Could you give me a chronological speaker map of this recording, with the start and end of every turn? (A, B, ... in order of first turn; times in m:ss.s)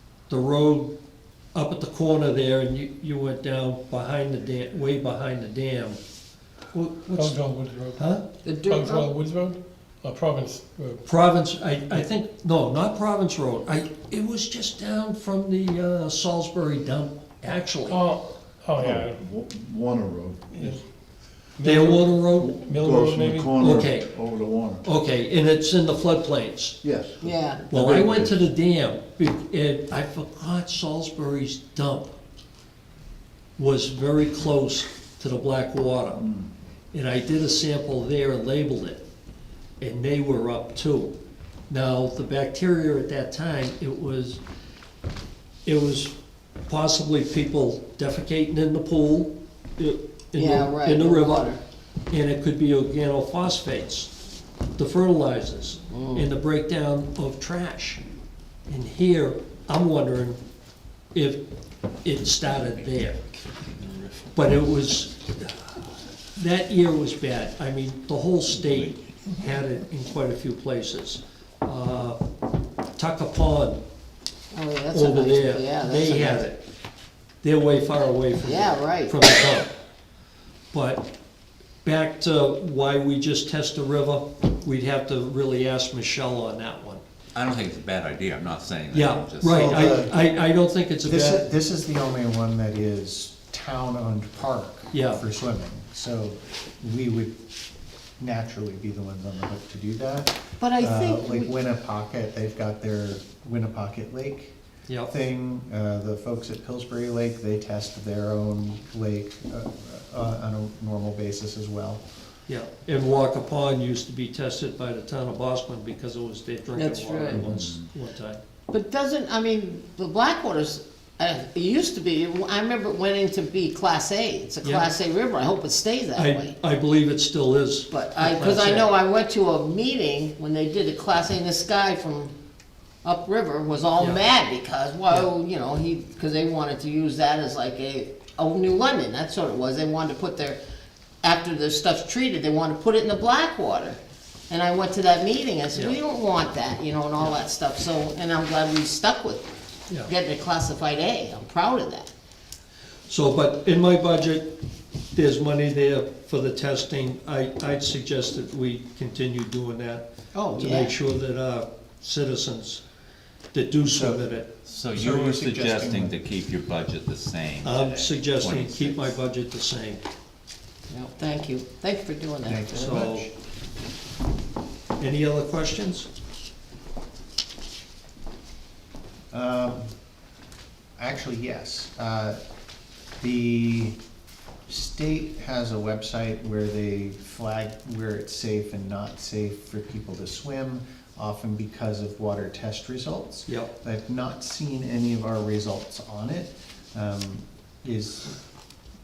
0:00.3-0:00.9 A
0:01.5-0:06.0 A
0:06.7-0:07.4 A
0:07.1-0:08.1 B
0:08.0-0:08.2 A
0:08.4-0:09.1 C
0:08.6-0:11.0 B
0:11.1-0:18.0 A
0:17.8-0:19.2 B
0:18.8-0:20.8 D
0:20.5-0:20.8 B
0:21.6-0:23.6 B
0:21.6-0:22.6 A
0:22.4-0:24.8 D
0:23.6-0:24.1 A
0:24.8-0:26.8 A
0:26.8-0:28.4 D
0:27.2-0:27.6 C
0:27.7-0:32.1 A
0:33.6-0:36.2 A
0:36.2-0:36.5 D
0:36.9-0:39.0 A
0:39.8-0:41.2 A
0:41.7-0:44.4 A
0:45.6-0:46.2 A
0:46.7-0:51.6 A
0:50.4-0:51.6 C
0:52.1-0:54.1 A
0:54.8-0:58.0 A
0:55.9-0:56.3 C
0:58.7-1:00.4 A
1:01.1-1:01.4 A
1:02.0-1:03.2 A
1:03.5-1:04.4 E
1:04.4-1:05.8 A
1:06.4-1:12.2 A
1:08.5-1:09.0 E
1:13.0-1:13.8 A
1:14.5-1:16.4 C
1:14.9-1:16.6 A
1:17.4-1:19.7 A
1:18.4-1:19.2 C
1:20.7-1:21.1 A
1:21.8-1:27.0 A
1:27.4-1:30.0 E
1:28.9-1:31.5 A
1:29.5-1:30.2 F
1:31.0-1:37.4 F
1:34.9-1:35.2 A
1:38.2-1:52.0 F
1:40.6-1:41.5 C
1:52.5-1:58.4 A
1:56.7-1:57.4 C
1:57.4-1:57.9 E
1:58.7-2:06.6 C
2:04.6-2:04.9 A
2:06.2-2:08.9 A
2:07.9-2:12.3 C
2:13.0-2:20.6 C
2:21.2-2:24.0 C
2:24.5-2:29.5 C
2:30.0-2:32.1 C
2:33.1-2:34.5 A
2:35.1-2:40.0 A
2:40.3-2:41.0 C
2:40.6-2:42.8 A
2:43.5-2:44.5 A
2:43.9-2:44.2 F
2:44.6-2:49.2 E
2:44.9-2:46.2 F
2:47.6-2:50.0 A
2:50.9-2:53.0 C
2:52.4-2:53.3 F
2:52.8-2:53.3 A
2:55.0-2:56.1 A
2:59.3-2:59.9 F
3:01.0-3:02.4 F
3:03.2-3:04.0 F
3:04.7-3:18.4 F